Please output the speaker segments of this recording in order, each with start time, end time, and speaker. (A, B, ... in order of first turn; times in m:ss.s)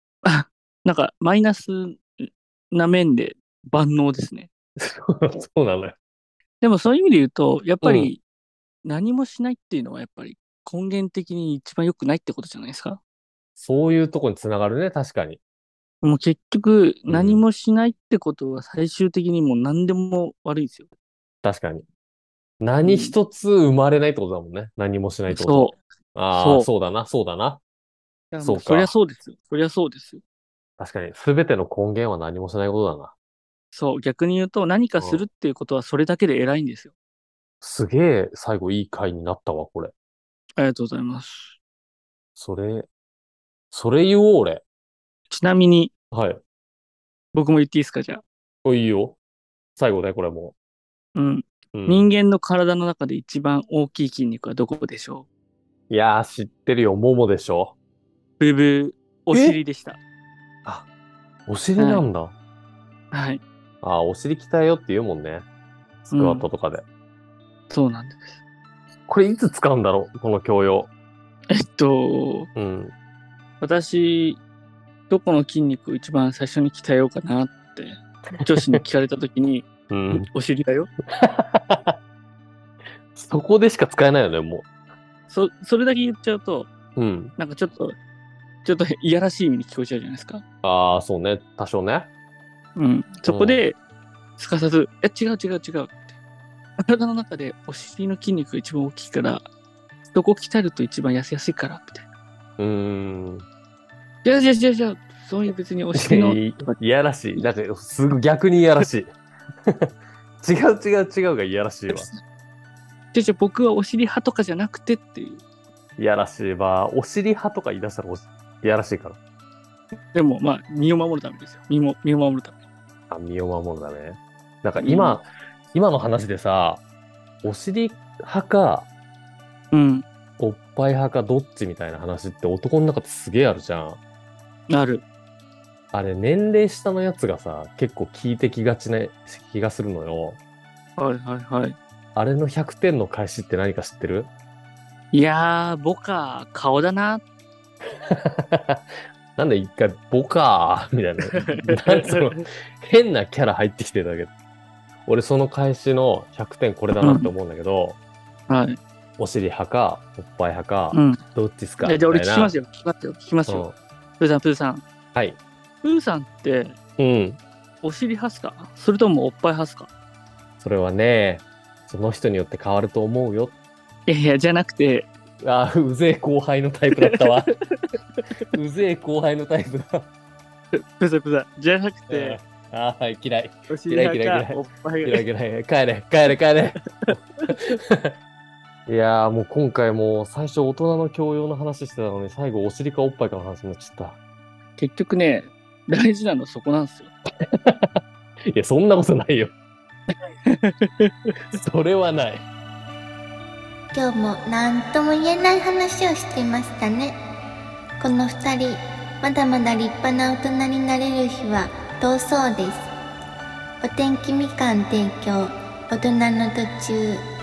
0:00.2-0:04.5 A
0:04.8-0:06.0 B
0:06.6-0:08.2 A
0:07.8-0:08.1 B
0:08.8-0:13.0 A
0:13.6-0:15.4 B
0:16.0-0:20.9 A
0:17.1-0:17.4 B
0:21.4-0:21.8 B
0:22.6-0:27.6 B
0:22.8-0:23.2 A
0:25.3-0:25.8 A
0:26.3-0:26.7 A
0:28.3-0:30.2 A
0:28.4-0:28.9 B
0:30.8-0:33.1 B
0:33.7-0:36.9 A
0:35.0-0:35.2 B
0:37.6-0:39.9 B
0:40.6-0:41.5 A
0:42.4-0:42.9 B
0:43.7-0:44.6 B
0:45.3-0:45.9 A
0:46.1-0:46.4 B
0:47.3-0:48.2 A
0:48.6-0:49.2 B
0:49.8-0:50.5 B
0:51.2-0:55.3 A
0:51.7-0:52.1 B
0:55.9-0:57.7 B
0:58.4-1:00.0 A
0:59.3-0:59.6 B
1:01.5-1:02.3 B
1:01.8-1:02.1 A
1:03.1-1:03.4 A
1:03.8-1:05.4 B
1:06.0-1:06.8 B
1:06.1-1:06.5 A
1:07.7-1:08.4 A
1:09.1-1:10.9 B
1:11.5-1:12.5 A
1:12.5-1:12.9 B
1:13.6-1:14.4 A
1:15.1-1:20.9 A
1:18.4-1:18.8 B
1:19.9-1:20.2 B
1:21.2-1:22.0 B
1:23.1-1:24.7 B
1:25.3-1:26.7 A
1:27.0-1:27.3 B
1:27.4-1:28.0 A
1:28.6-1:30.4 A
1:30.6-1:32.1 B
1:32.8-1:33.8 A
1:33.3-1:33.6 B
1:34.4-1:36.1 A
1:36.8-1:39.4 A
1:40.1-1:42.0 A
1:42.6-1:43.4 B
1:44.2-1:46.8 A
1:45.9-1:49.1 B
1:50.4-1:52.1 B
1:51.9-1:52.2 A
1:53.1-1:55.4 A
1:56.0-1:59.2 B
2:00.1-2:02.6 A
2:03.1-2:06.8 B
2:04.8-2:05.2 A
2:07.4-2:08.9 B
2:09.7-2:10.0 A
2:10.4-2:14.0 B
2:14.7-2:15.0 A
2:15.9-2:20.4 B
2:21.0-2:21.8 A
2:22.1-2:24.3 B
2:25.1-2:27.2 A
2:28.1-2:34.3 B
2:31.3-2:32.4 A
2:35.0-2:38.0 B
2:37.0-2:37.3 A
2:38.5-2:38.8 A
2:39.2-2:42.5 B
2:40.9-2:41.2 A
2:41.8-2:44.8 A
2:43.5-2:43.7 B
2:45.1-2:45.4 B
2:45.8-2:46.8 A
2:47.0-2:47.4 B
2:47.8-2:49.9 A
2:50.6-2:53.5 B
2:54.1-2:55.1 A
2:55.4-2:57.5 B
2:57.0-2:58.3 A
2:58.5-3:00.1 B
3:00.7-3:02.4 A
3:02.1-3:08.1 B
3:03.7-3:05.2 A
3:08.9-3:14.2 B
3:14.8-3:17.1 A
3:17.4-3:19.5 B
3:20.4-3:21.4 A
3:21.5-3:22.4 B
3:23.9-3:27.2 C
3:28.0-3:32.8 C
3:33.8-3:37.2 C